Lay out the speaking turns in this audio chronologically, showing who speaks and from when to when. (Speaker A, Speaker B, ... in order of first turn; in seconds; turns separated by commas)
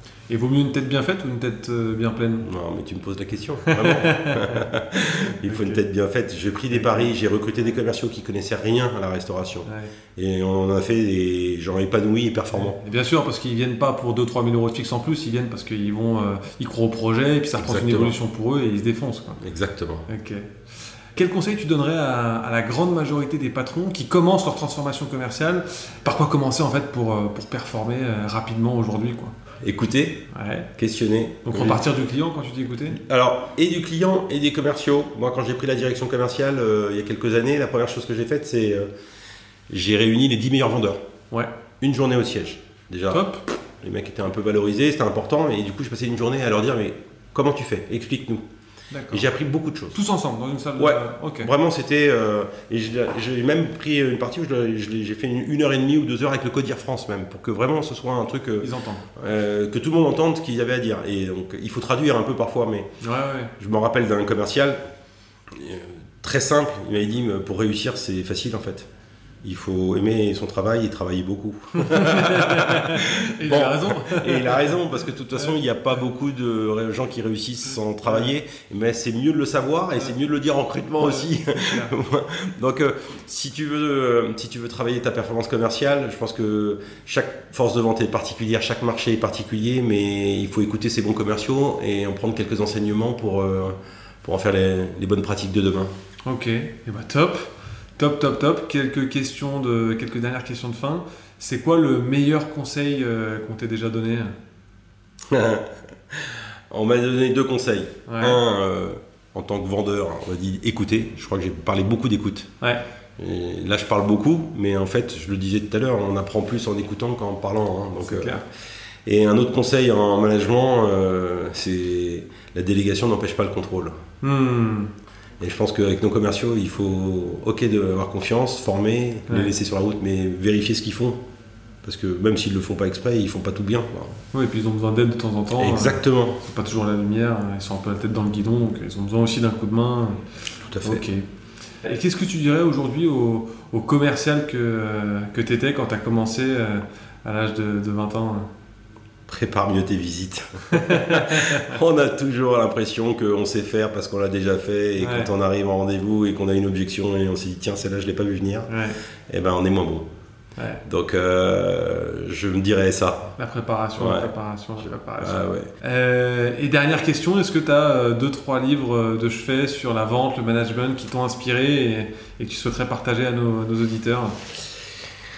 Speaker A: 0.3-2.4, Speaker B: 2.4-12.8, Speaker A: 3.7-4.7, Speaker A: 5.5-5.8, Speaker A: 6.7-7.1, Speaker A: 9.7-9.9, Speaker A: 12.6-19.4, Speaker B: 17.6-18.2, Speaker B: 19.4-20.1, Speaker A: 20.1-20.6, Speaker A: 21.1-29.3, Speaker B: 29.6-30.2, Speaker A: 30.3-30.7, Speaker B: 30.8-31.8, Speaker A: 31.5-33.0, Speaker B: 32.9-38.9, Speaker B: 39.7-41.0, Speaker B: 41.8-43.3, Speaker A: 43.1-43.4, Speaker B: 43.8-48.4, Speaker A: 48.9-49.2, Speaker B: 49.1-50.0, Speaker A: 49.9-51.5, Speaker B: 50.8-62.9, Speaker A: 58.6-59.0, Speaker A: 63.0-63.5, Speaker B: 63.6-64.8, Speaker B: 65.5-68.9, Speaker B: 69.4-95.9, Speaker A: 71.8-74.8, Speaker A: 81.0-81.9, Speaker A: 96.2-104.3, Speaker B: 105.3-112.5, Speaker A: 108.1-108.4, Speaker B: 113.2-118.5, Speaker A: 118.0-118.4, Speaker B: 119.0-124.0, Speaker A: 124.2-124.9, Speaker B: 125.4-131.2, Speaker B: 131.8-134.2, Speaker A: 134.3-140.2, Speaker B: 135.6-136.4, Speaker B: 140.6-141.0, Speaker A: 140.8-141.2, Speaker A: 141.8-148.5, Speaker B: 149.3-158.7, Speaker A: 150.7-151.7, Speaker A: 155.0-155.3, Speaker A: 158.7-159.0, Speaker B: 159.3-160.0, Speaker A: 160.6-160.8, Speaker B: 160.8-163.3, Speaker A: 163.4-174.4, Speaker B: 164.0-164.3, Speaker B: 165.2-165.7